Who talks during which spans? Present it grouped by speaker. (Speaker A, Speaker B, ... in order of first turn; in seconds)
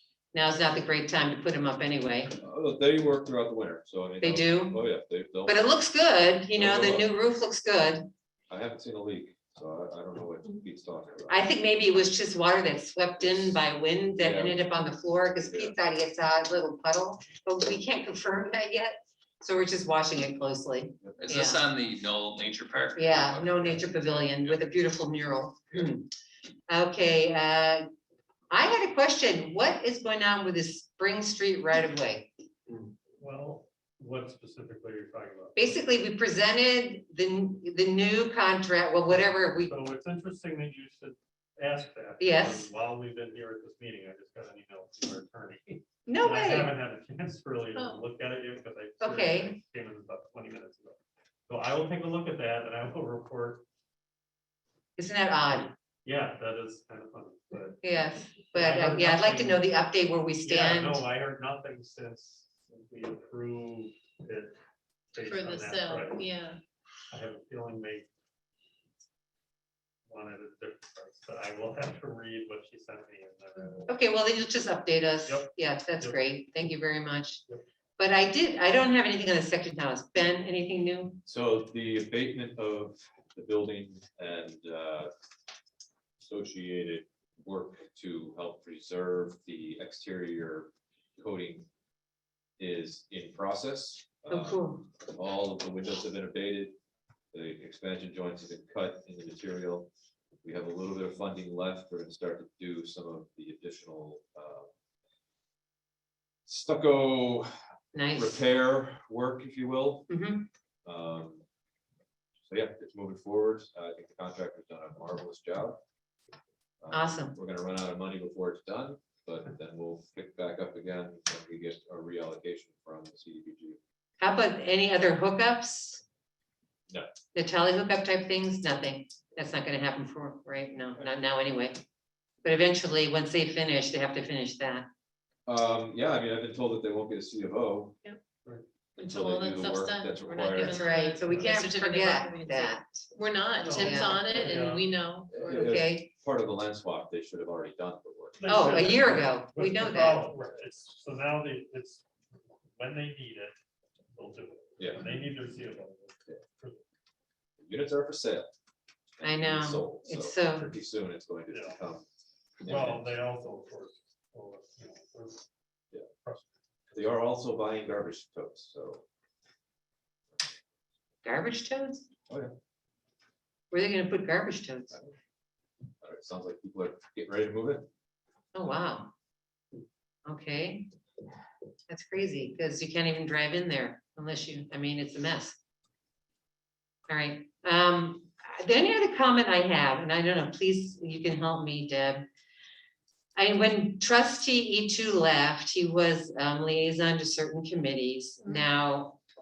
Speaker A: 0.3-2.4, 4.2-4.8, 5.5-8.1, 11.3-21.6, 23.0-26.1, 26.7-27.9, 28.5-32.3, 35.6-39.7, 42.2-42.7, 46.1-46.8, 49.0-49.5, 55.0-55.7, 57.8-61.0, 73.9-77.4, 78.0-81.2, 94.3-94.9, 107.9-108.4, 110.1-110.5, 116.9-117.4, 124.2-126.0, 127.3-131.8, 132.4-134.9, 140.6-143.1, 143.7-144.2, 145.5-146.1, 148.5-150.3, 159.2-160.7, 171.2-172.1, 173.7-175.0, 178.6-179.1, 180.3-180.9, 181.9-185.6, 187.1-192.3, 193.4-199.2
Speaker B: 2.4-5.7, 6.5-7.1, 8.5-11.4, 13.2-13.6, 14.2-14.7, 15.3-15.8, 81.3-85.1, 86.2-91.7, 92.6-96.8, 97.3-99.9, 100.4-104.7, 106.5-107.5, 108.1-110.1, 110.9-111.4, 112.5-115.8, 116.8-123.8, 135.5-138.0, 139.0-140.9, 145.3-148.7, 154.8-155.1, 157.6-158.5, 159.2-162.1, 162.6-163.1, 166.9-169.0, 172.3-172.5, 176.0-177.9
Speaker C: 21.2-23.9
Speaker D: 33.2-35.7, 39.6-53.6, 56.0-57.8, 58.4-59.6, 60.4-64.6, 65.1-66.2, 67.1-68.1, 70.1-73.9, 75.2-76.2, 141.3-141.5, 143.6-144.9, 148.4-152.1, 152.7-153.6, 154.1-156.8, 161.5-161.8, 162.6-165.4, 166.1-166.5
Speaker E: 47.8-48.0, 65.2-66.6, 139.0-145.8